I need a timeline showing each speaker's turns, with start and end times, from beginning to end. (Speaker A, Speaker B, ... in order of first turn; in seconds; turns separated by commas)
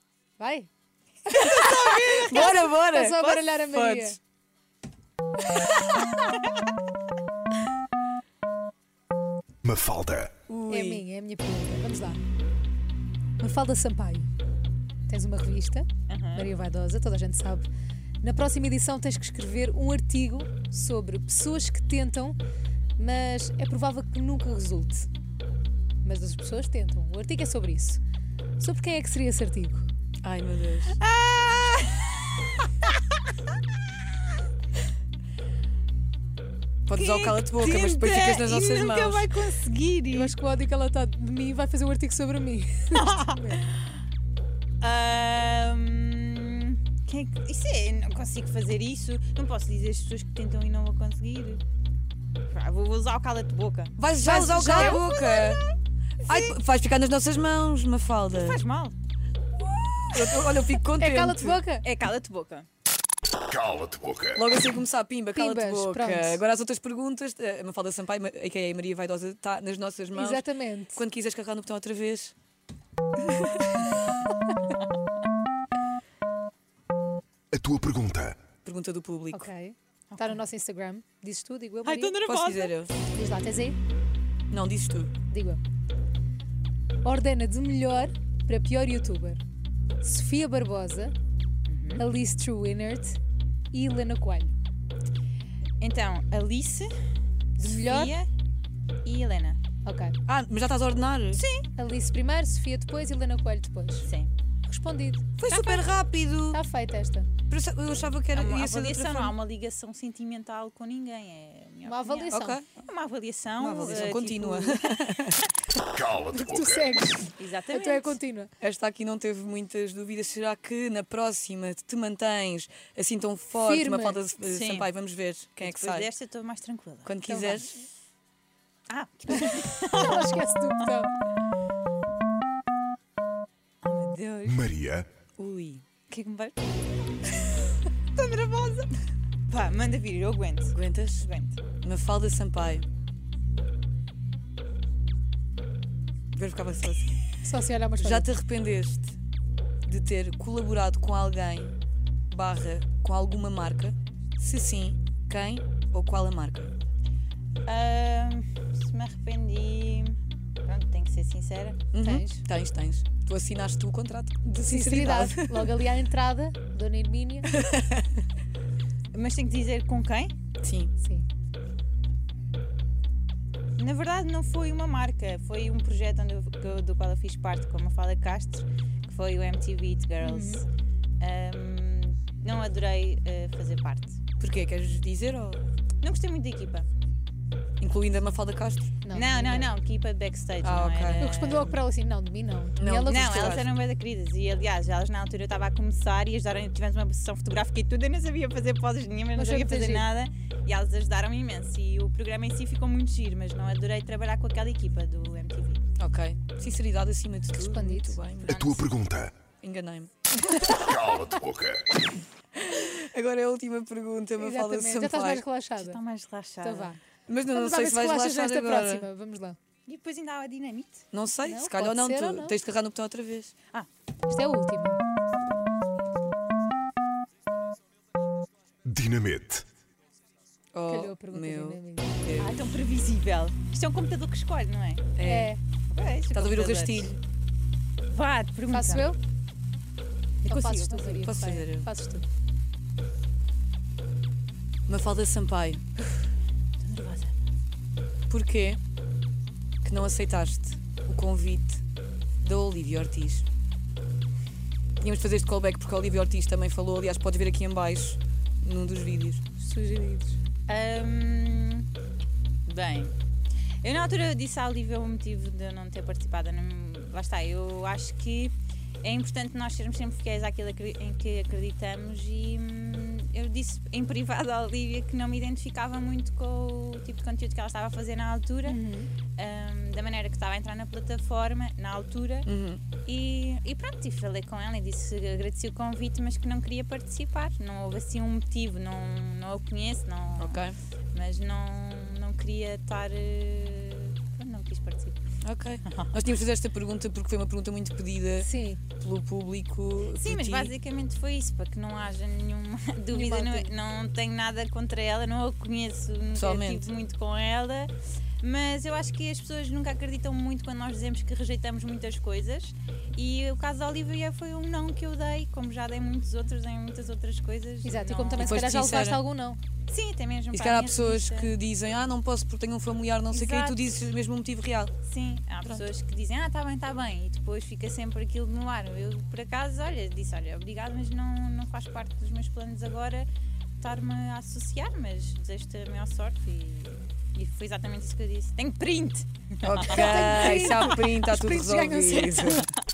Speaker A: 0.4-0.7, Speaker B: 1.3-4.2, Speaker C: 1.3-2.5, Speaker A: 2.2-4.2, Speaker C: 6.1-6.6, Speaker D: 9.6-10.3, Speaker B: 10.5-11.0, Speaker A: 10.7-12.2, Speaker A: 13.4-14.3, Speaker A: 15.1-17.7, Speaker C: 16.1-16.5, Speaker A: 18.2-22.4, Speaker A: 23.0-25.1, Speaker A: 26.0-28.0, Speaker A: 28.6-29.9, Speaker B: 30.2-31.0, Speaker C: 30.9-33.0, Speaker B: 36.9-39.3, Speaker C: 36.9-40.3, Speaker A: 40.1-43.6, Speaker C: 42.9-44.0, Speaker C: 44.8-51.6, Speaker C: 52.5-56.5, Speaker B: 54.0-55.6, Speaker A: 54.2-55.0, Speaker B: 56.2-58.6, Speaker C: 58.3-59.0, Speaker C: 59.6-60.5, Speaker B: 60.1-61.6, Speaker A: 60.9-61.9, Speaker C: 61.8-62.7, Speaker D: 63.5-64.4, Speaker B: 64.3-70.4, Speaker A: 65.3-66.4, Speaker A: 70.1-71.0, Speaker B: 70.9-72.3, Speaker B: 73.2-73.9, Speaker D: 77.5-78.4, Speaker B: 78.6-79.5, Speaker A: 79.3-82.2, Speaker C: 80.1-80.4, Speaker C: 81.8-82.8, Speaker B: 82.2-82.9, Speaker A: 83.1-83.8, Speaker B: 84.5-85.1, Speaker A: 85.3-85.6, Speaker A: 87.0-89.4, Speaker A: 90.0-91.1, Speaker C: 91.7-92.0, Speaker A: 92.0-93.2, Speaker A: 93.7-94.5, Speaker C: 95.8-96.9, Speaker A: 97.6-98.2, Speaker C: 97.6-98.3, Speaker C: 99.0-99.6, Speaker A: 99.8-100.1, Speaker B: 100.3-101.4, Speaker C: 101.3-101.7, Speaker A: 101.8-104.1, Speaker C: 104.0-104.3, Speaker A: 104.7-105.4, Speaker B: 105.4-106.6, Speaker C: 105.4-105.9, Speaker A: 106.5-107.3, Speaker B: 107.5-109.3, Speaker C: 108.3-114.9, Speaker A: 111.8-112.6, Speaker B: 112.3-112.7, Speaker B: 113.6-115.8, Speaker D: 115.9-117.0, Speaker A: 116.2-118.5, Speaker C: 117.3-118.2, Speaker B: 118.6-126.1, Speaker A: 123.5-124.2, Speaker C: 124.5-124.9, Speaker C: 125.6-127.1, Speaker B: 127.0-127.7, Speaker A: 127.3-127.7, Speaker C: 128.9-130.4, Speaker A: 129.9-131.1, Speaker C: 133.8-134.7, Speaker D: 134.5-135.1, Speaker B: 135.4-135.9, Speaker C: 136.1-138.9, Speaker C: 139.5-141.6, Speaker B: 140.7-141.3, Speaker B: 141.8-142.9, Speaker B: 146.3-147.2, Speaker A: 147.4-148.3, Speaker B: 148.0-149.2, Speaker B: 149.8-151.7, Speaker B: 152.3-156.7, Speaker C: 157.7-161.8, Speaker B: 161.9-165.8, Speaker A: 162.0-162.4, Speaker A: 164.6-167.6, Speaker B: 167.5-168.2, Speaker C: 169.1-170.3, Speaker B: 170.6-170.9, Speaker A: 171.0-171.2, Speaker C: 173.8-180.7, Speaker A: 180.2-180.6, Speaker C: 181.2-184.2, Speaker B: 184.4-185.7, Speaker C: 186.0-186.9, Speaker B: 187.8-188.9, Speaker A: 189.0-189.7, Speaker C: 189.1-191.8, Speaker B: 190.6-191.3, Speaker A: 191.2-193.2, Speaker B: 192.8-193.7, Speaker C: 193.1-205.8, Speaker A: 199.4-200.1, Speaker B: 206.0-208.6, Speaker A: 207.6-208.2, Speaker C: 208.5-208.9, Speaker D: 208.5-209.4, Speaker B: 209.6-211.0, Speaker D: 210.8-211.9, Speaker B: 212.5-215.4, Speaker A: 214.4-216.0, Speaker C: 215.8-217.0, Speaker A: 216.6-217.0, Speaker B: 217.2-219.1, Speaker A: 217.5-219.6, Speaker C: 219.9-221.1, Speaker B: 221.1-223.5, Speaker A: 221.4-222.6, Speaker A: 224.3-225.0, Speaker D: 228.9-229.7, Speaker B: 230.7-232.7, Speaker A: 230.9-232.2, Speaker C: 232.4-235.2, Speaker B: 235.2-235.5, Speaker A: 235.2-235.6, Speaker C: 235.9-237.1, Speaker B: 236.3-237.2, Speaker C: 238.1-239.1, Speaker A: 238.7-239.2, Speaker A: 240.4-242.3, Speaker B: 240.5-241.9, Speaker C: 240.5-241.2, Speaker B: 244.9-245.8, Speaker C: 246.8-247.3, Speaker B: 248.3-248.8, Speaker B: 249.8-251.8, Speaker B: 252.4-253.4, Speaker B: 255.0-259.4, Speaker A: 259.6-260.4, Speaker C: 260.7-261.9, Speaker C: 262.7-263.1, Speaker C: 263.8-278.8, Speaker A: 278.7-279.1, Speaker C: 279.4-282.5, Speaker B: 282.4-282.8, Speaker C: 283.1-295.2, Speaker B: 290.4-290.8, Speaker B: 295.4-300.7, Speaker C: 295.9-296.1, Speaker A: 298.4-298.8, Speaker C: 300.2-318.9, Speaker A: 303.1-303.7, Speaker B: 306.4-306.9, Speaker A: 317.8-319.6, Speaker B: 318.4-319.2, Speaker C: 319.9-321.5, Speaker B: 320.5-324.9, Speaker C: 323.3-324.0, Speaker C: 325.0-333.3, Speaker C: 333.8-341.0, Speaker B: 339.6-342.7, Speaker A: 339.9-342.6, Speaker C: 342.2-342.8